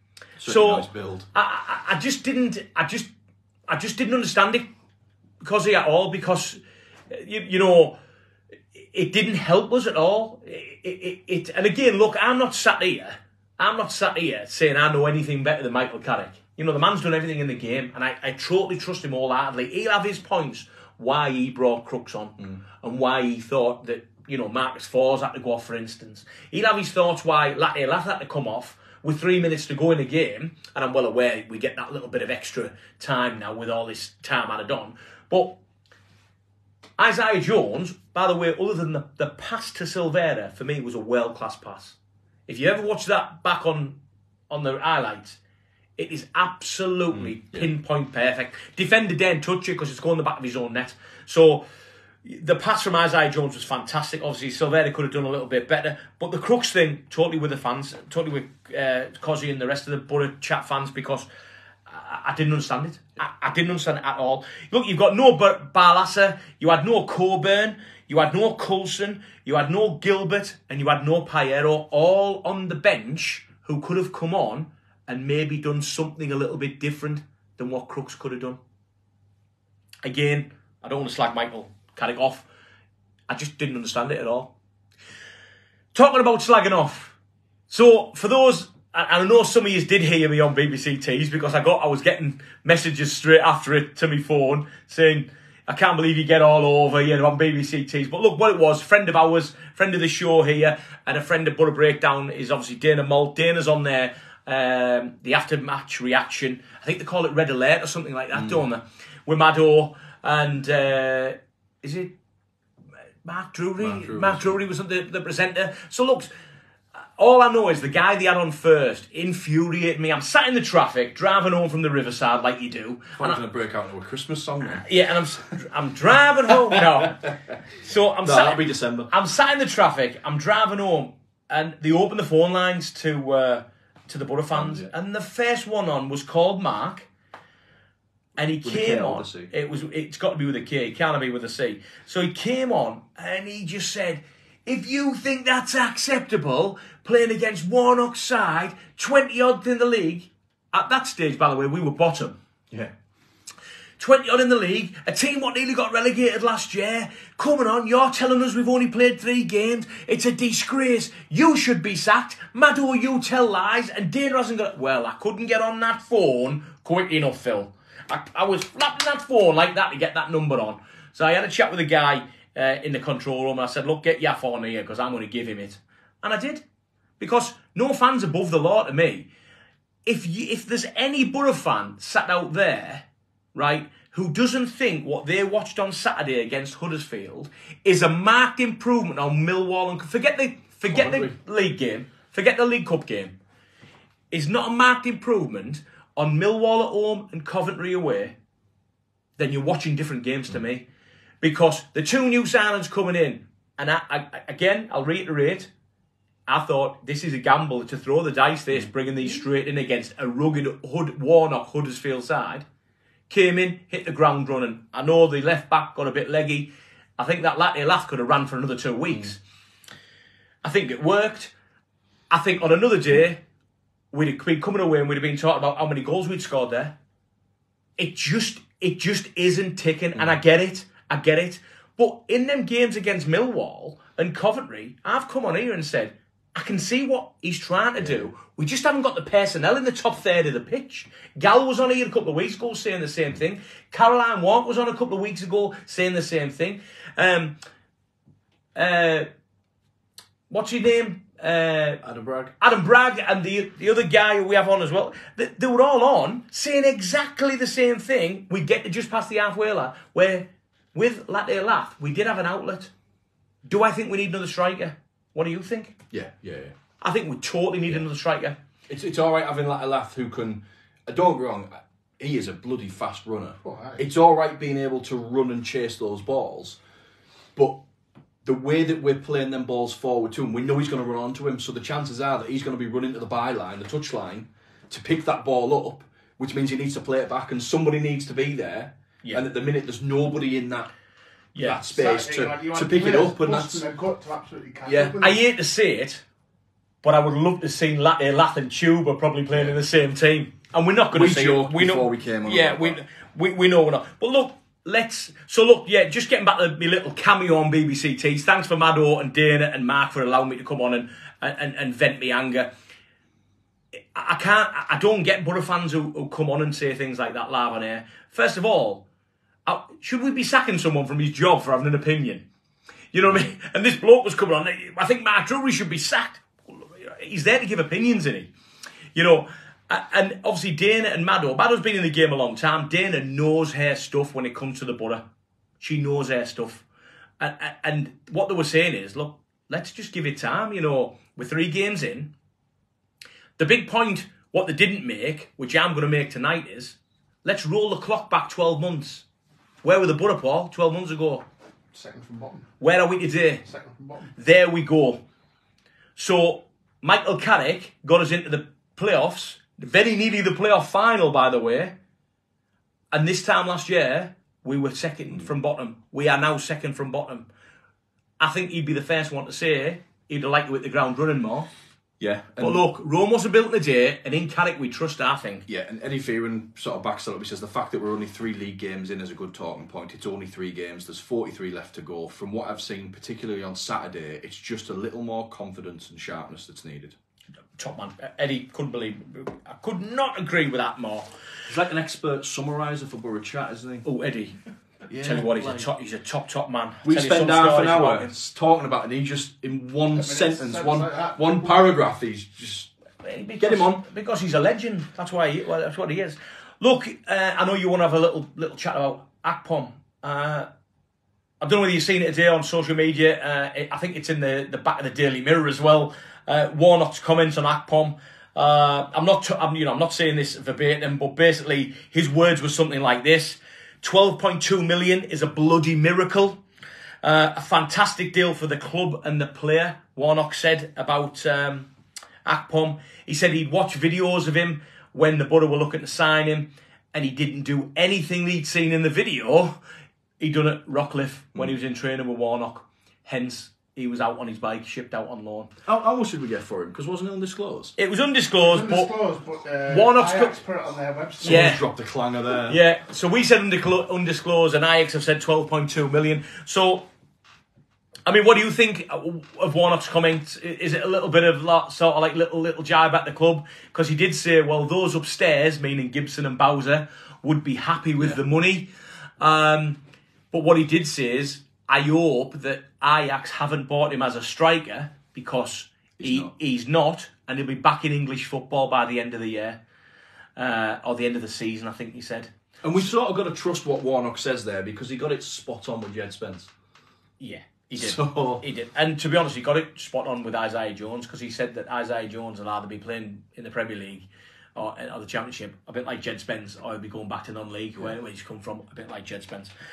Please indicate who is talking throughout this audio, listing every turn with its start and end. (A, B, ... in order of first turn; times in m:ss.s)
0:00.4-0:01.3 A
0:00.4-0:03.1 B
0:03.7-0:04.7 B
0:05.4-0:06.6 B
0:07.1-0:08.0 B
0:08.7-0:35.6 B
0:37.0-0:44.0 B
0:44.5-0:45.4 B
0:46.0-0:51.6 B
0:47.1-0:47.7 A
0:52.2-1:01.3 B
1:01.9-1:18.6 B
1:20.0-1:22.5 B
1:23.3-1:24.5 B
1:25.9-1:27.2 B
1:27.7-1:52.2 B
1:48.3-1:48.6 A
1:53.2-1:56.3 B
1:53.8-1:54.6 A
1:57.2-2:03.4 B
2:03.2-2:04.8 A
2:04.6-2:17.1 B
2:06.5-2:07.5 A
2:08.2-2:09.1 A
2:14.5-2:14.9 A
2:18.4-2:32.4 B
2:18.6-2:19.5 A
2:34.0-2:56.6 B
2:57.2-2:59.3 B
3:00.0-3:13.4 B
3:10.9-3:11.4 A
3:14.3-3:18.4 B
3:19.4-3:20.9 B
3:21.4-3:25.7 B
3:26.5-3:32.6 B
3:33.3-3:39.4 B
3:40.6-3:41.5 B
3:42.3-3:43.4 B
3:44.1-3:47.0 B
3:48.0-4:07.6 B
3:58.0-3:58.3 A
4:08.8-4:09.3 B
4:10.5-4:12.0 B
4:12.0-4:12.5 A
4:12.6-4:22.9 B
4:23.6-4:25.9 B
4:26.1-4:26.7 A
4:27.0-4:28.6 B
4:28.9-4:36.8 A
4:33.6-4:34.0 C
4:37.6-4:37.8 A
4:38.4-4:50.9 A
4:51.5-4:51.8 B
4:51.6-4:53.8 A
4:51.9-4:55.4 C
4:54.8-4:55.2 A
4:55.2-4:56.2 B
4:57.0-5:12.7 B
4:59.5-4:59.8 A
5:01.1-5:03.0 A
5:14.1-5:19.0 B
5:19.6-5:22.4 B
5:23.1-5:28.5 B
5:29.1-5:35.2 B
5:35.8-5:36.8 B
5:37.4-5:42.3 B
5:43.6-5:49.2 B
5:49.8-5:51.4 B
5:51.9-5:52.7 C
5:52.8-5:53.6 B
5:53.6-5:54.3 C
5:54.4-5:55.2 B
5:56.2-6:01.9 B
6:03.1-6:07.5 B
6:08.4-6:11.7 B
6:12.2-6:12.8 A
6:12.6-6:15.6 B
6:15.7-6:27.2 A
6:27.8-6:31.3 B
6:31.7-6:34.0 A
6:34.0-6:34.6 B
6:35.1-6:35.9 A
6:35.2-6:38.3 B
6:37.0-6:42.9 A
6:40.1-6:42.0 C
6:43.2-6:50.7 B
6:43.6-6:44.0 A
6:51.6-7:06.6 B
7:07.2-7:11.9 B
7:12.4-7:19.8 B
7:20.4-7:25.7 B
7:25.8-7:27.9 A
7:28.0-7:29.1 B
7:28.6-7:31.8 C
7:29.8-7:30.6 B
7:31.4-7:32.8 A
7:31.4-7:31.8 B
7:32.7-7:37.1 B
7:38.2-7:48.9 B
7:49.4-7:50.0 B
7:50.5-7:59.8 B
7:56.2-7:56.5 A
8:00.6-8:02.5 B
8:02.8-8:06.7 A
8:07.4-8:19.7 B
8:07.9-8:08.6 A